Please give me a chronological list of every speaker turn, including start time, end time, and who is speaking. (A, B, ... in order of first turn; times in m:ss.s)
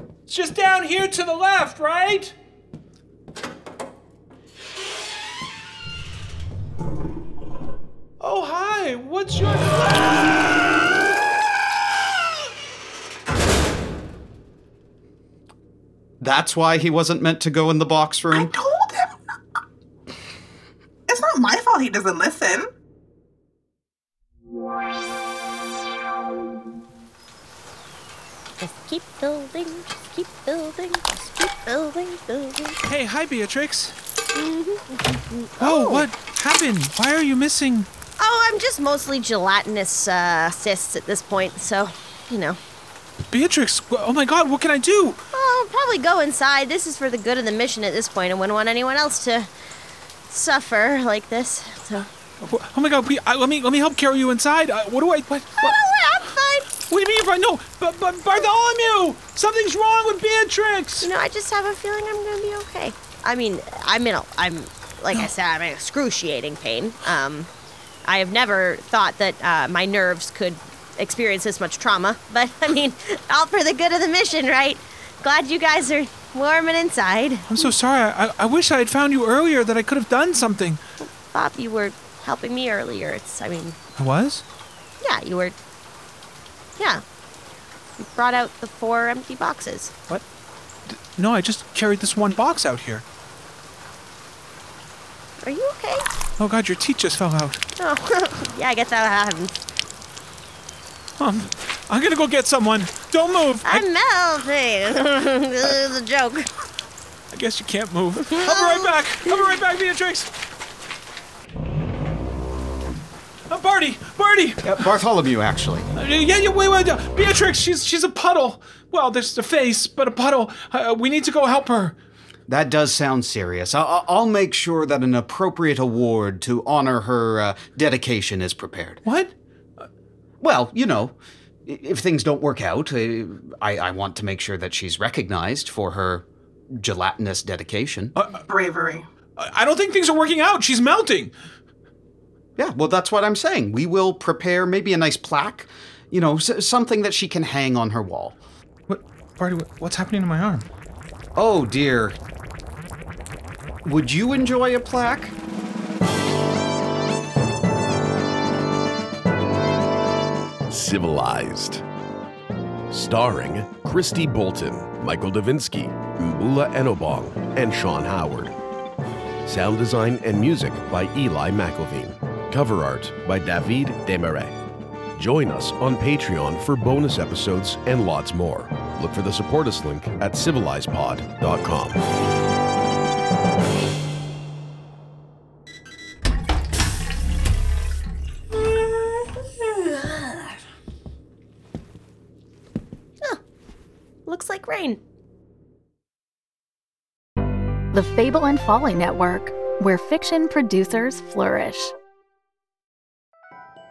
0:00.3-0:02.4 A
0:08.2-0:10.2 A
0:16.2-0:18.5 B
0:18.3-0:19.2 C
0:21.1-0:22.6 C
0:28.6-0:32.8 D
0:32.8-0:34.0 A
0:34.3-0:36.1 D
0:35.6-0:37.9 A
0:38.2-0:42.6 D
0:43.3-0:45.2 A
0:45.3-0:49.5 D
0:50.3-0:52.1 D
0:52.4-0:55.8 A
0:55.6-0:56.7 D
0:56.8-1:01.1 A
1:01.0-1:07.5 D
1:08.0-1:17.7 D
1:17.5-1:20.8 A
1:21.0-1:23.8 D
1:24.0-1:24.4 A
1:25.0-1:25.5 D
1:28.0-1:29.9 D
1:30.9-1:33.0 A
1:35.4-1:36.1 D
1:36.4-1:37.6 A
1:37.8-1:39.5 D
1:41.2-1:43.9 A
1:43.6-1:46.5 D
1:47.3-1:50.3 A
1:48.3-1:49.6 D
1:53.5-1:54.9 A
1:54.6-1:55.9 B
1:56.0-2:02.0 A
2:02.5-2:09.0 B
2:09.0-2:09.3 A
2:10.4-2:18.1 B
2:18.5-2:19.0 C
2:19.4-2:21.3 A
2:22.6-2:28.4 B
2:28.9-2:30.7 A
2:31.4-2:32.2 B
2:33.8-2:35.4 B
2:40.7-2:41.8 E
2:42.9-2:48.6 E
2:49.5-2:54.6 E
2:55.2-3:02.0 E
3:14.2-3:15.0 D
3:17.9-3:21.9 F